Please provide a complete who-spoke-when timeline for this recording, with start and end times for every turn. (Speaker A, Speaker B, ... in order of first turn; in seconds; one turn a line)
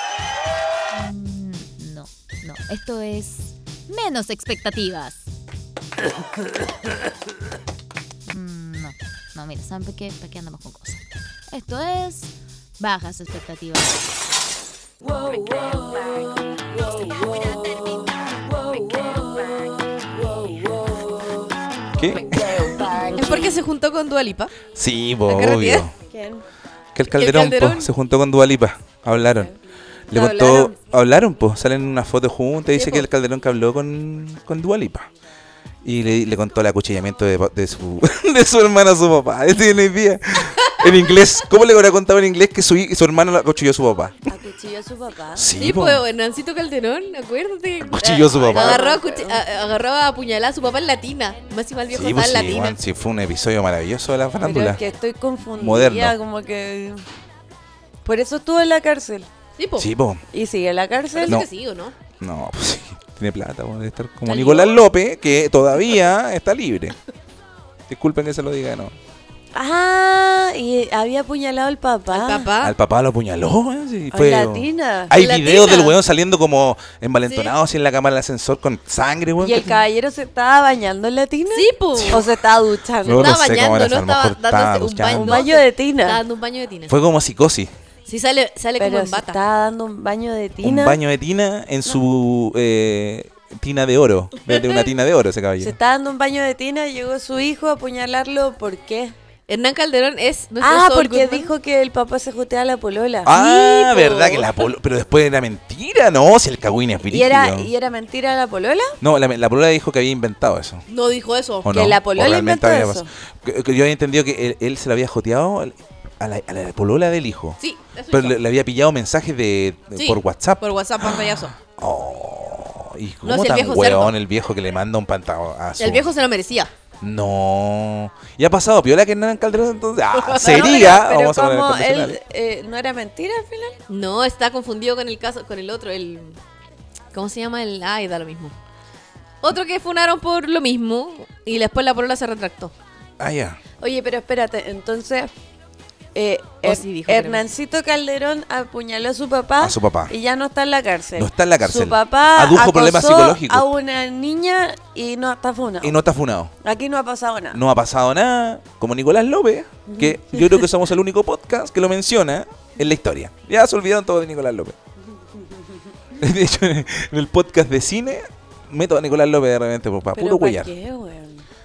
Speaker A: 0.9-5.3
Speaker A: 8.3-14.1
Speaker B: 15.1-21.5
Speaker C: 22.0-22.3
Speaker B: 22.1-23.5
Speaker D: 23.1-24.5
Speaker C: 24.7-25.9
Speaker D: 25.3-25.9
Speaker B: 26.1-26.4
Speaker C: 26.9-29.5
Speaker D: 27.1-27.9
Speaker C: 30.1-35.1
Speaker B: 30.1-30.8
Speaker D: 32.7-33.1
Speaker C: 35.8-44.3
Speaker B: 44.3-45.5
Speaker C: 45.4-46.0
Speaker D: 45.6-52.8
Speaker C: 47.8-48.8
Speaker B: 48.5-49.4
Speaker C: 51.9-54.8
Speaker B: 54.4-57.0
Speaker C: 55.5-56.1
Speaker B: 58.0-59.3
Speaker D: 59.6-59.9
Speaker C: 59.8-60.2
Speaker B: 60.3-61.4
Speaker D: 61.1-61.9
Speaker C: 62.2-67.0
Speaker D: 64.3-64.8
Speaker C: 67.9-68.9
Speaker B: 69.5-72.5
Speaker D: 72.1-72.8
Speaker C: 72.6-79.7
Speaker B: 74.1-75.1
Speaker D: 75.1-76.0
Speaker D: 77.3-77.5
Speaker B: 79.4-83.3
Speaker D: 81.5-82.2
Speaker C: 82.0-82.2
Speaker C: 83.0-85.5
Speaker D: 83.1-86.9
Speaker B: 85.1-86.2
Speaker C: 86.9-87.7
Speaker D: 88.1-89.4
Speaker B: 88.8-91.0
Speaker C: 90.6-95.7
Speaker B: 95.6-99.1
Speaker D: 99.5-101.5
Speaker B: 100.6-104.4
Speaker C: 103.2-107.7
Speaker D: 103.3-104.2
Speaker B: 107.0-109.0
Speaker C: 109.0-110.8
Speaker D: 110.9-111.7
Speaker C: 111.6-117.6
Speaker B: 111.7-113.1
Speaker D: 117.6-118.4
Speaker C: 118.1-126.1
Speaker D: 120.0-121.5
Speaker D: 123.2-124.1
Speaker D: 125.8-126.7
Speaker C: 127.0-132.2
Speaker D: 130.1-131.1
Speaker B: 130.4-133.8
Speaker D: 133.9-136.4
Speaker D: 137.1-138.5
Speaker D: 139.4-142.7
Speaker C: 143.2-143.6
Speaker B: 143.8-145.3
Speaker B: 146.1-155.9
Speaker D: 146.6-147.4
Speaker C: 149.6-150.1
Speaker C: 151.2-153.7
Speaker C: 155.8-156.5
Speaker B: 156.6-157.6
Speaker C: 157.5-164.8
Speaker B: 159.9-160.6
Speaker B: 165.4-165.8
Speaker C: 166.2-170.7
Speaker B: 170.2-171.4